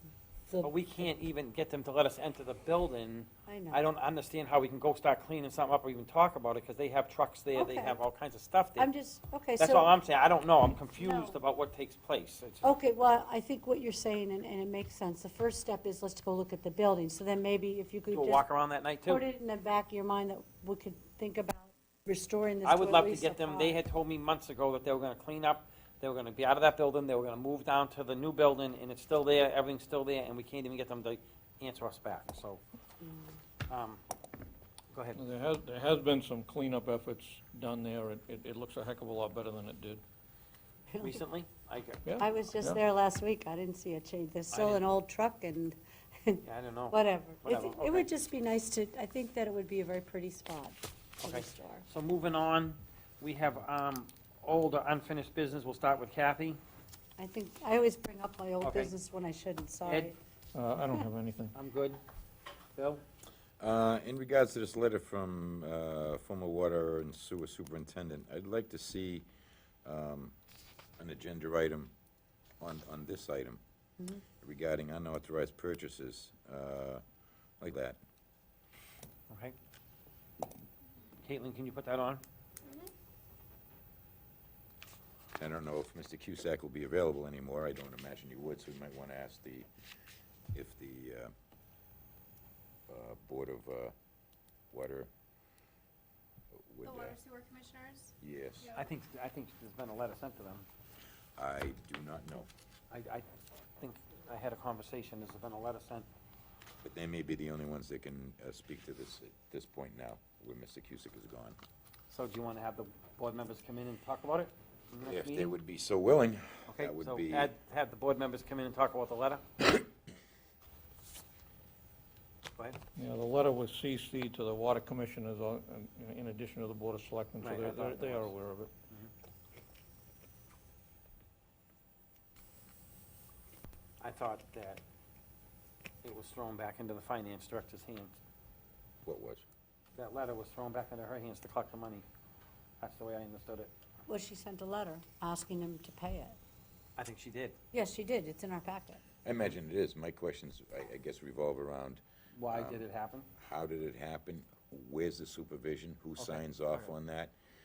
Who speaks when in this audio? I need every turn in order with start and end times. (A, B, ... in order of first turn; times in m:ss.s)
0:00.6-0:08.9 A
0:03.5-0:03.8 B
0:07.5-0:08.0 B
0:08.8-0:09.9 B
0:09.6-0:12.8 A
0:11.0-0:11.4 B
0:12.6-0:18.4 B
0:18.1-0:19.2 A
0:19.0-0:23.8 B
0:22.6-0:32.6 A
0:33.0-0:33.3 B
0:33.7-0:34.0 A
0:34.9-0:35.2 A
0:35.1-0:40.0 C
0:41.0-0:42.2 A
0:42.0-0:42.8 C
0:42.2-0:51.8 B
0:44.5-0:44.9 A
0:46.4-0:48.1 A
0:51.2-0:56.6 A
0:57.2-1:00.1 B
0:58.6-0:58.9 A
0:59.8-1:00.1 A
1:00.5-1:01.5 C
1:01.5-1:02.0 A
1:02.8-1:03.0 A
1:03.6-1:09.2 D
1:09.8-1:10.3 D
1:11.0-1:11.9 D
1:12.6-1:13.6 D
1:14.4-1:17.0 D
1:17.6-1:18.0 D
1:19.3-1:19.6 A
1:21.2-1:22.2 A
1:25.4-1:29.7 D
1:30.5-1:31.3 D
1:32.9-1:33.9 D
1:34.7-1:35.1 D
1:36.6-1:37.2 D
1:36.8-1:38.8 E
1:38.2-1:38.7 D
1:38.7-1:40.6 A
1:41.4-1:42.5 D
1:42.9-1:43.3 A
1:43.8-1:46.1 A
1:46.8-1:51.6 D
1:52.1-1:55.5 A
1:55.0-1:57.5 D
1:56.7-1:59.6 A
2:03.0-2:08.7 C
2:07.4-2:08.3 A
2:14.0-2:14.8 A
2:16.0-2:18.2 A
2:19.0-2:19.4 D
2:20.0-2:22.0 A
2:22.8-2:23.7 A
2:24.1-2:26.4 B
2:27.0-2:27.6 A
2:27.7-2:29.0 B
2:29.2-2:32.8 D
2:32.3-2:33.3 A
2:33.4-2:37.3 D
2:36.2-2:36.9 A